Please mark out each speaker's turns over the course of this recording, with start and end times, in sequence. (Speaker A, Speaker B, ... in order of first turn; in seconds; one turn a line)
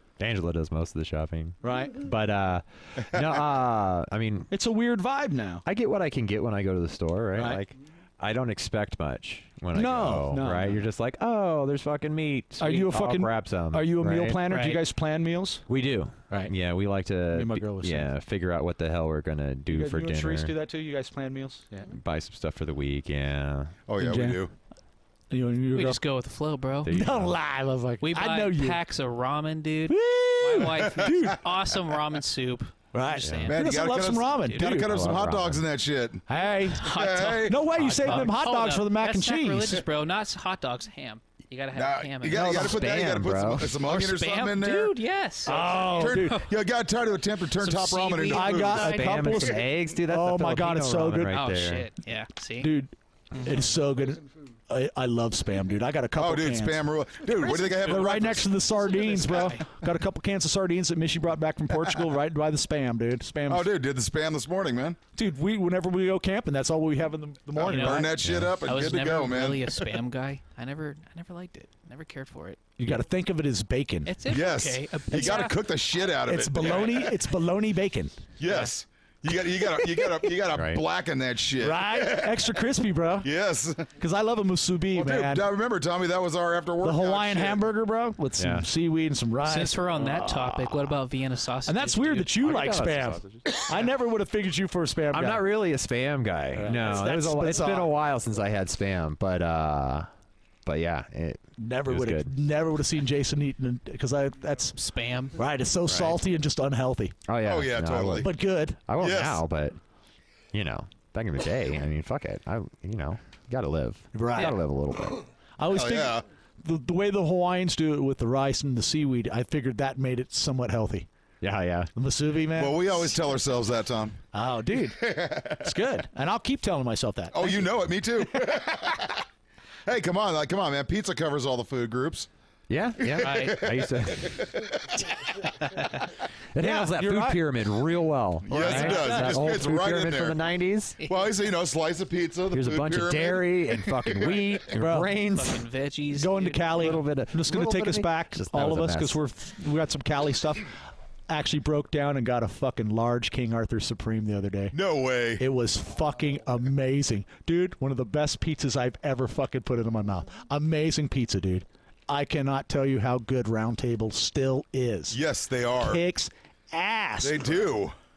Speaker A: 0.2-4.5
Speaker B: 1.6-2.0
Speaker B: 4.5-5.7
Speaker A: 5.7-14.4
Speaker B: 7.4-7.6
Speaker B: 9.7-10.8
Speaker B: 12.6-15.7
Speaker C: 14.5-14.8
Speaker A: 15.7-20.5
Speaker B: 17.3-18.1
Speaker B: 19.7-21.9
Speaker A: 21.9-23.7
Speaker D: 23.9-24.5
Speaker B: 24.0-24.4
Speaker B: 25.3-26.0
Speaker C: 25.8-26.9
Speaker A: 26.8-27.4
Speaker B: 26.9-28.8
Speaker C: 28.0-33.8
Speaker B: 29.9-31.4
Speaker B: 32.9-34.9
Speaker A: 33.2-33.5
Speaker D: 33.5-36.2
Speaker A: 34.7-35.6
Speaker B: 36.3-36.9
Speaker C: 36.7-42.9
Speaker D: 36.8-38.2
Speaker B: 37.4-39.8
Speaker D: 41.7-49.0
Speaker A: 42.3-43.8
Speaker C: 43.6-46.5
Speaker B: 45.5-46.5
Speaker C: 47.5-49.6
Speaker B: 48.3-51.4
Speaker A: 48.8-51.9
Speaker C: 51.3-52.7
Speaker B: 52.6-63.7
Speaker D: 56.2-58.6
Speaker C: 59.1-59.6
Speaker D: 63.5-65.0
Speaker B: 65.2-68.2
Speaker D: 67.6-69.8
Speaker C: 67.6-72.6
Speaker A: 68.2-68.5
Speaker B: 72.8-74.2
Speaker C: 74.1-75.6
Speaker D: 74.3-77.1
Speaker B: 75.1-75.5
Speaker B: 76.2-78.2
Speaker D: 78.4-82.5
Speaker C: 78.5-78.7
Speaker A: 80.5-80.8
Speaker B: 81.6-83.3
Speaker D: 83.2-83.9
Speaker B: 84.0-85.5
Speaker D: 85.0-87.6
Speaker B: 86.8-90.9
Speaker A: 88.4-88.7
Speaker C: 89.5-92.5
Speaker B: 91.7-95.5
Speaker A: 92.4-93.7
Speaker A: 95.1-100.1
Speaker B: 96.5-97.9
Speaker A: 100.7-102.3
Speaker B: 101.6-104.8
Speaker C: 104.8-105.4
Speaker B: 105.3-107.2
Speaker A: 105.9-106.2
Speaker A: 107.3-109.8
Speaker D: 107.4-108.3
Speaker B: 108.2-108.8
Speaker D: 109.0-109.4
Speaker A: 110.5-115.2
Speaker B: 114.1-114.6
Speaker B: 115.6-121.1
Speaker D: 115.7-116.2
Speaker A: 121.4-121.9
Speaker B: 122.0-123.1
Speaker D: 122.5-124.2
Speaker B: 124.3-127.7
Speaker D: 124.9-125.7
Speaker D: 127.3-129.2
Speaker D: 129.9-132.3
Speaker A: 132.7-135.0
Speaker D: 133.0-135.0
Speaker C: 133.2-133.7
Speaker C: 135.8-136.1
Speaker A: 136.5-141.0
Speaker B: 136.6-137.4
Speaker D: 138.5-140.4
Speaker C: 138.5-139.6
Speaker D: 141.1-144.4
Speaker A: 142.5-145.6
Speaker B: 144.7-145.1
Speaker C: 145.3-146.8
Speaker B: 146.1-150.7
Speaker A: 146.7-149.2
Speaker B: 151.3-154.8
Speaker D: 154.7-155.4
Speaker B: 155.4-165.2
Speaker D: 165.1-166.0
Speaker B: 165.8-167.6
Speaker D: 167.2-168.0